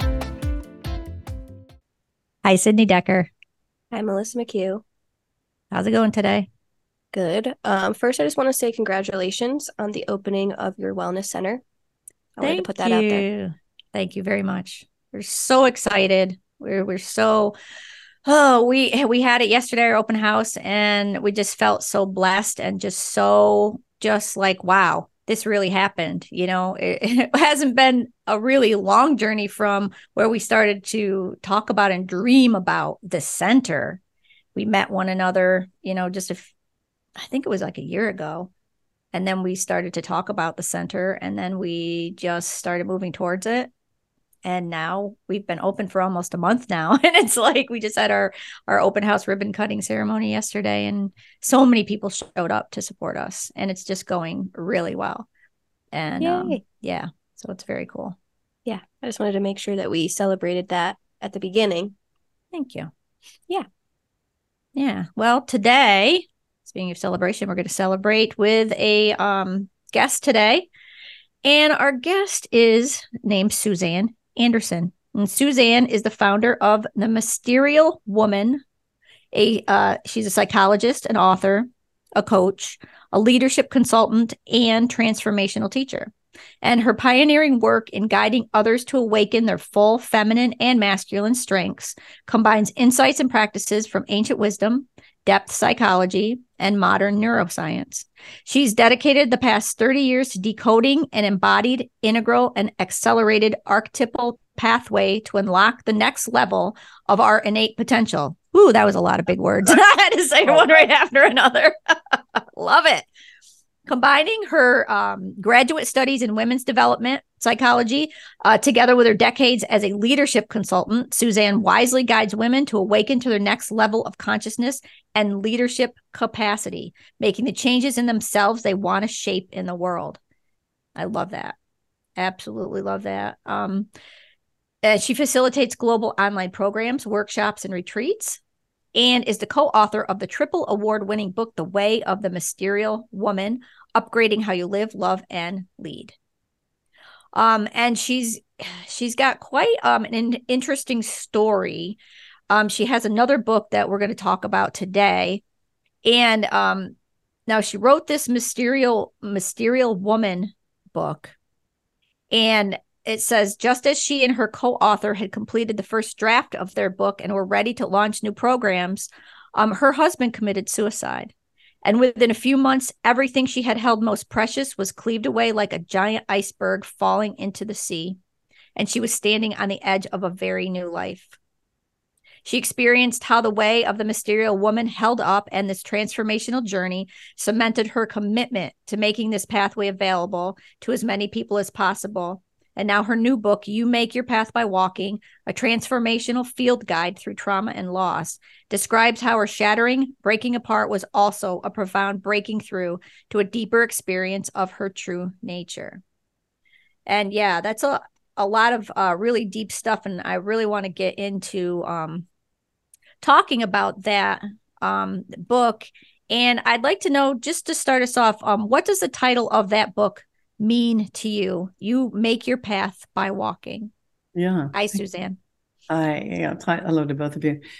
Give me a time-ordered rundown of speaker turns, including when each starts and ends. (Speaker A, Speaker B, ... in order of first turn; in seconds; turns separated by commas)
Speaker A: 2.4-3.3, Speaker B: 3.9-4.8, Speaker A: 5.7-6.5, Speaker B: 7.1-11.6, Speaker B: 12.4-13.2, Speaker A: 12.4-17.5, Speaker A: 18.2-34.0, Speaker A: 34.5-36.5, Speaker A: 37.2-38.5, Speaker A: 39.1-43.7, Speaker A: 44.4-55.3, Speaker A: 55.9-58.1, Speaker B: 56.2-56.6, Speaker B: 58.6-61.9, Speaker A: 62.5-62.9, Speaker A: 64.7-70.7, Speaker A: 71.4-78.6, Speaker A: 79.3-113.1, Speaker A: 113.9-130.2, Speaker A: 130.9-131.6, Speaker A: 132.2-133.9, Speaker A: 134.8-138.4, Speaker A: 138.9-146.1, Speaker A: 147.3-152.0, Speaker A: 152.5-155.4, Speaker A: 156.0-156.9, Speaker A: 157.5-161.3, Speaker A: 162.3-171.3, Speaker A: 171.8-178.2, Speaker A: 178.8-181.4, Speaker A: 182.4-206.0, Speaker A: 207.1-212.2, Speaker A: 213.2-223.9, Speaker C: 224.3-224.8, Speaker A: 224.7-225.4, Speaker C: 225.9-227.6